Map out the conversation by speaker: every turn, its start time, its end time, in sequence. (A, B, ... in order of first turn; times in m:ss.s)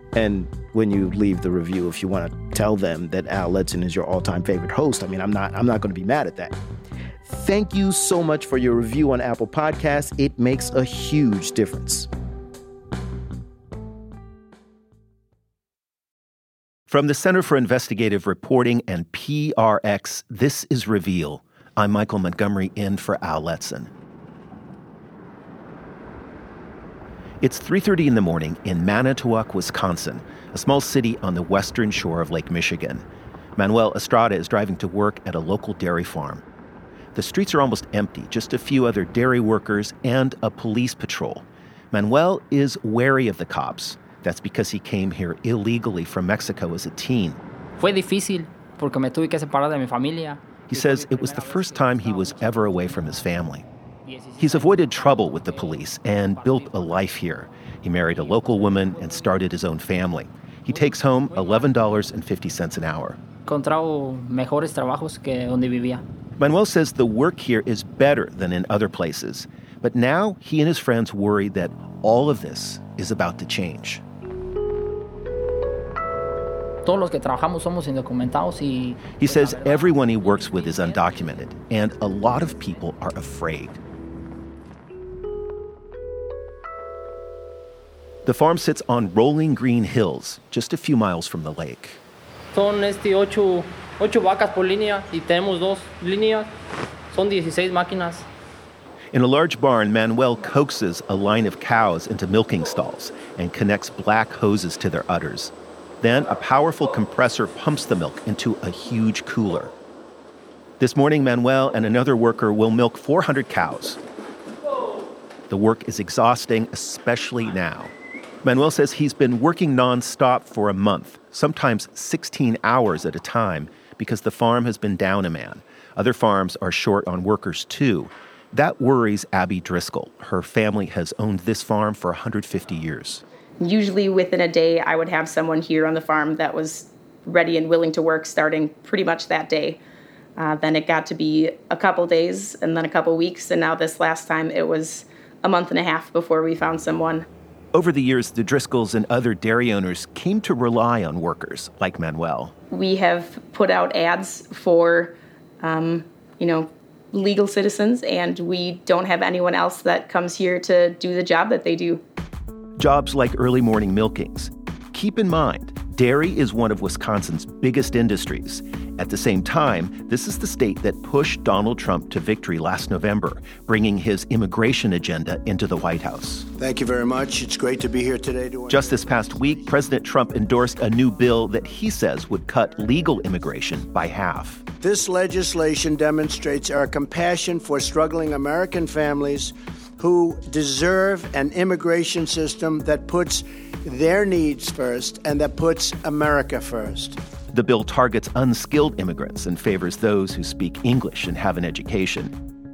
0:00.1-0:06.6 A
0:07.2-0:12.1 A
0:16.9-0:23.9 B
0:27.4-0:33.0 B
0:33.6-0:36.4 B
0:37.2-0:47.4 B
0:47.8-0:52.6 C
0:50.7-0:53.7 B
0:54.1-0:55.8 C
0:54.4-1:03.2 B
0:56.3-0:56.9 C
1:03.5-1:06.0 C
1:06.4-1:14.0 B
1:16.8-1:21.1 C
1:19.1-1:23.8 B
1:28.2-1:32.0 B
1:32.5-1:36.5 C
1:37.1-1:38.2 C
1:39.1-1:49.7 B
1:50.8-1:54.0 B
1:55.5-1:57.9 B
1:58.4-2:13.2 B
2:13.6-2:19.8 D
2:20.4-2:27.3 D
2:27.7-2:32.5 B
2:32.7-2:42.0 D
2:42.8-2:56.5 B
2:56.5-2:59.0 E
2:58.7-3:04.6 B
3:04.8-3:17.2 E
3:17.5-3:22.3 B